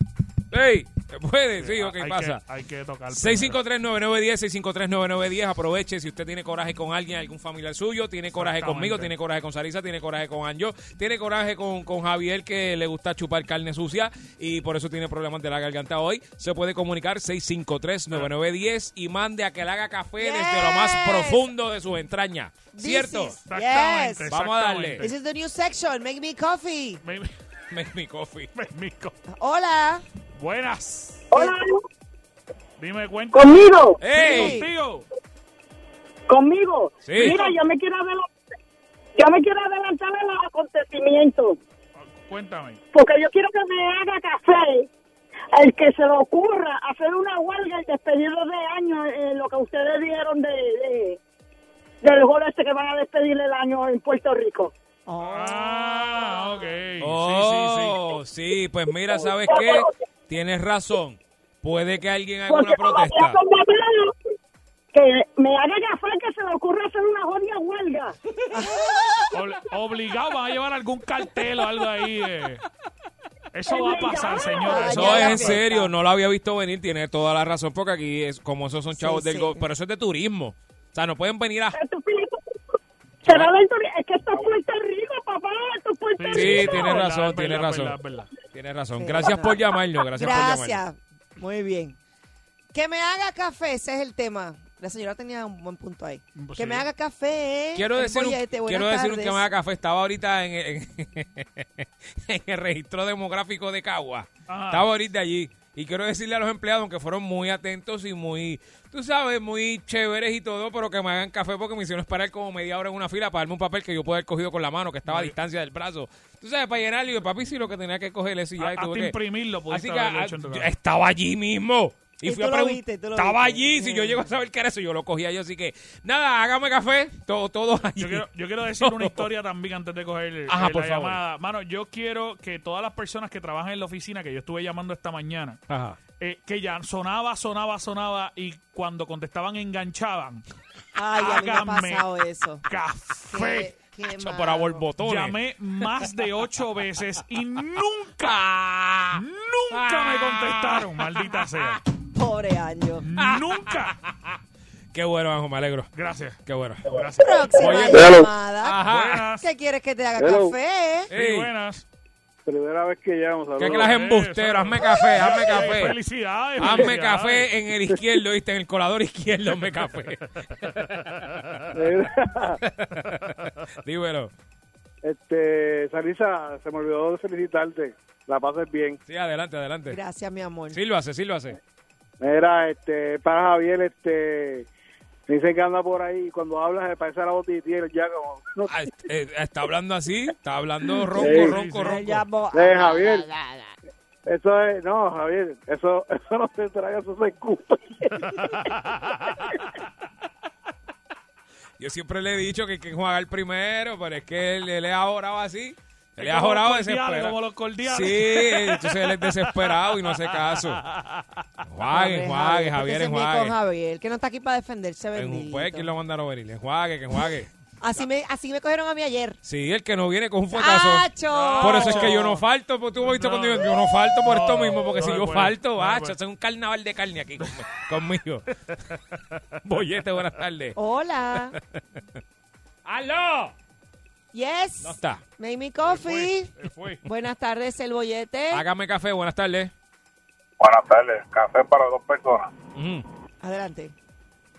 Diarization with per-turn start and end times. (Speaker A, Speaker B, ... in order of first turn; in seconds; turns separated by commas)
Speaker A: 0.5-2.4, Speaker B: 1.6-3.6, Speaker A: 3.1-23.4, Speaker B: 8.3-9.1, Speaker C: 20.2-21.5, Speaker C: 22.7-24.3, Speaker B: 23.5-25.2, Speaker A: 24.3-25.0, Speaker C: 25.0-27.0, Speaker B: 27.0-27.3, Speaker A: 27.7-28.5, Speaker B: 28.6-29.2, Speaker C: 29.3-30.1, Speaker B: 30.4-31.2, Speaker D: 31.3-31.8, Speaker B: 32.8-33.5, Speaker D: 33.3-34.0, Speaker A: 34.0-34.6, Speaker B: 34.1-35.1, Speaker C: 34.1-34.7, Speaker D: 36.3-38.3, Speaker A: 37.0-37.4, Speaker B: 37.2-37.6, Speaker D: 39.2-41.6, Speaker B: 42.0-42.8, Speaker D: 42.9-44.9, Speaker D: 45.5-51.2, Speaker D: 52.0-54.7, Speaker C: 55.1-56.5, Speaker B: 55.2-58.1, Speaker A: 57.0-63.4, Speaker D: 59.5-59.9, Speaker D: 62.5-64.1, Speaker D: 64.9-68.1, Speaker C: 68.5-69.3, Speaker B: 69.3-72.6, Speaker B: 73.5-75.6, Speaker D: 73.7-74.9, Speaker C: 74.7-75.9, Speaker A: 74.9-81.8, Speaker C: 78.9-79.6, Speaker D: 81.7-82.4, Speaker D: 83.2-86.8, Speaker A: 83.3-83.5, Speaker B: 86.2-88.3, Speaker A: 86.3-88.0, Speaker A: 88.5-90.8, Speaker C: 89.0-89.6, Speaker C: 90.2-92.0, Speaker C: 92.7-99.5, Speaker B: 96.4-96.9, Speaker A: 97.8-119.2, Speaker B: 104.5-104.9, Speaker B: 115.1-115.3, Speaker B: 118.6-120.7, Speaker A: 119.7-128.3, Speaker C: 122.2-124.2, Speaker B: 128.0-135.6, Speaker A: 128.8-129.3, Speaker A: 130.5-131.2, Speaker A: 135.7-136.0, Speaker B: 136.2-140.4, Speaker C: 140.9-142.6, Speaker B: 141.2-142.1, Speaker B: 142.7-143.7, Speaker C: 143.3-144.8, Speaker A: 144.2-145.4, Speaker B: 145.0-148.5, Speaker A: 148.2-151.8, Speaker B: 149.1-151.8, Speaker C: 152.1-153.1, Speaker B: 153.0-154.0, Speaker A: 153.2-154.1, Speaker A: 154.9-155.9, Speaker B: 155.9-158.1, Speaker A: 156.5-159.3, Speaker C: 157.2-158.8, Speaker B: 158.8-159.4, Speaker C: 159.4-161.1, Speaker A: 161.1-161.5, Speaker B: 161.1-161.8, Speaker E: 162.5-163.9, Speaker A: 163.6-166.0, Speaker B: 163.6-167.5, Speaker A: 166.6-170.8, Speaker B: 171.1-171.6, Speaker E: 171.7-172.6, Speaker A: 172.6-174.3, Speaker E: 175.0-179.0, Speaker A: 179.1-180.0, Speaker C: 179.9-180.8, Speaker A: 180.7-181.6, Speaker E: 182.2-184.7, Speaker E: 185.3-188.7, Speaker A: 188.7-192.2, Speaker E: 191.1-191.6, Speaker C: 191.2-193.2, Speaker B: 191.2-192.2, Speaker E: 192.5-193.3, Speaker E: 194.3-198.4, Speaker B: 198.4-199.4, Speaker A: 201.8-210.8, Speaker B: 206.2-211.2, Speaker A: 211.6-213.6, Speaker C: 211.9-215.9, Speaker A: 215.2-217.5, Speaker C: 217.8-219.4, Speaker A: 219.4-228.5, Speaker C: 220.5-222.2, Speaker B: 221.3-222.4, Speaker B: 223.0-226.2, Speaker A: 229.6-230.8, Speaker C: 230.8-231.6, Speaker A: 232.9-233.5, Speaker C: 234.3-236.5, Speaker A: 234.8-235.2, Speaker B: 235.9-237.0, Speaker C: 237.0-238.6, Speaker A: 238.5-239.7, Speaker F: 240.6-242.5, Speaker A: 242.8-243.1, Speaker C: 243.4-243.9